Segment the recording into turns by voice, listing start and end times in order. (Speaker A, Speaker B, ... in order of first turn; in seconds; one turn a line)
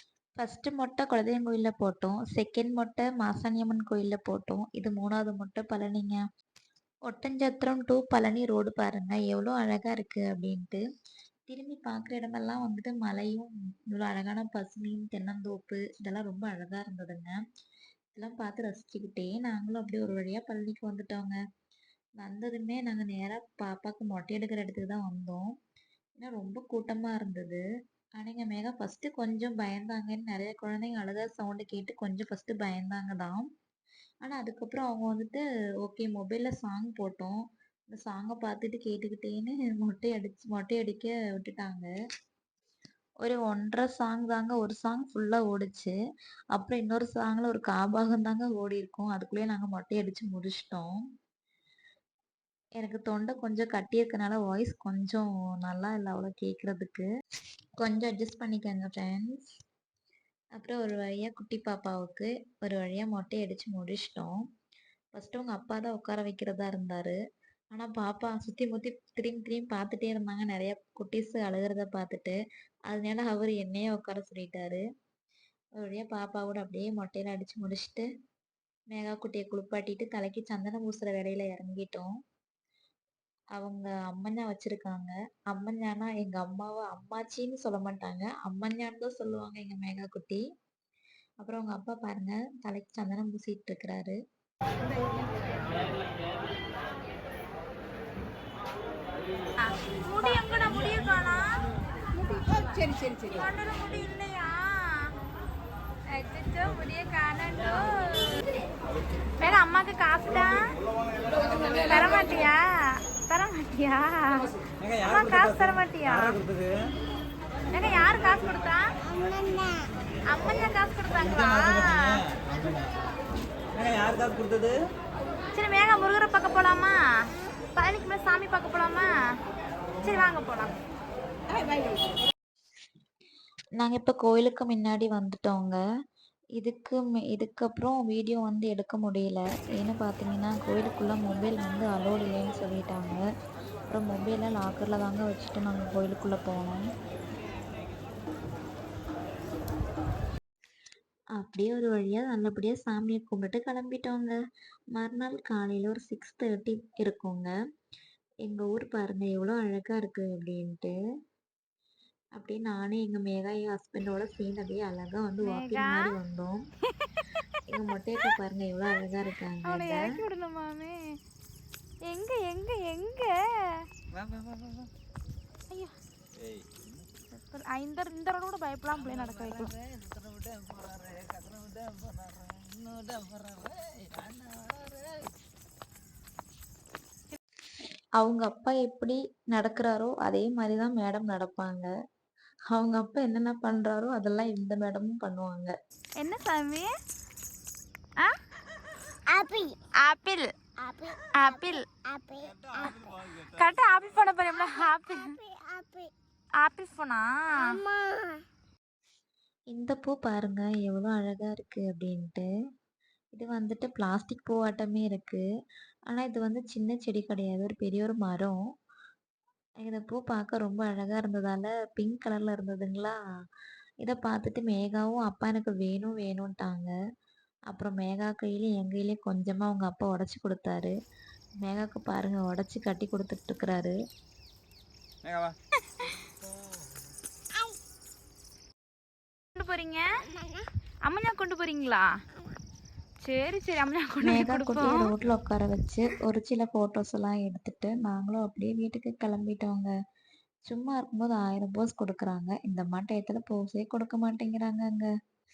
Speaker A: 0.4-6.2
Speaker A: 7.1-10.8
Speaker A: 11.5-17.4
Speaker A: 18.2-21.4
Speaker A: 22.2-25.5
Speaker A: 26.2-27.6
Speaker A: 28.2-33.4
Speaker A: 34.2-37.4
Speaker A: 37.9-41.9
Speaker A: 43.2-46.0
Speaker A: 46.5-51.0
Speaker A: 52.8-57.1
Speaker A: 57.8-59.5
Speaker A: 60.6-64.4
Speaker A: 65.2-67.2
Speaker A: 67.7-72.4
Speaker A: 72.9-74.8
Speaker A: 75.8-78.1
Speaker A: 78.9-82.1
Speaker A: 83.6-90.4
Speaker A: 91.4-94.2
Speaker B: 99.6-101.5
Speaker B: 102.2-105.1
Speaker B: 106.1-108.4
Speaker B: 109.4-110.6
Speaker B: 111.8-116.4
Speaker B: 117.7-118.9
Speaker C: 119.3-119.7
Speaker B: 120.3-122.3
Speaker D: 123.8-124.7
Speaker B: 125.5-127.0
Speaker B: 127.8-129.1
Speaker B: 130.0-130.8
Speaker A: 133.8-135.8
Speaker A: 136.6-143.2
Speaker A: 143.9-146.8
Speaker A: 151.4-154.4
Speaker A: 154.9-157.5
Speaker A: 158.4-160.9
Speaker A: 162.4-166.6
Speaker B: 165.4-166.1
Speaker B: 167.0-167.3
Speaker A: 167.7-170.2
Speaker B: 169.7-171.0
Speaker B: 172.1-173.4
Speaker D: 174.2-174.8
Speaker B: 175.7-176.0
Speaker B: 177.3-179.8
Speaker D: 179.8-185.3
Speaker A: 188.2-191.9
Speaker A: 192.7-195.7
Speaker B: 196.2-196.9
Speaker C: 199.3-199.8
Speaker B: 200.0-200.5
Speaker C: 200.8-201.2
Speaker B: 201.2-201.8
Speaker C: 201.7-202.9
Speaker B: 202.8-205.4
Speaker C: 205.3-206.1
Speaker B: 206.6-207.8
Speaker A: 209.7-212.5
Speaker A: 213.3-215.4
Speaker A: 216.1-218.6
Speaker A: 219.8-223.2
Speaker A: 224.0-226.9
Speaker A: 227.7-230.9
Speaker A: 231.6-233.9
Speaker B: 239.6-240.1
Speaker B: 241.1-242.1
Speaker B: 243.2-245.1
Speaker A: 244.2-249.9
Speaker A: 250.7-255.1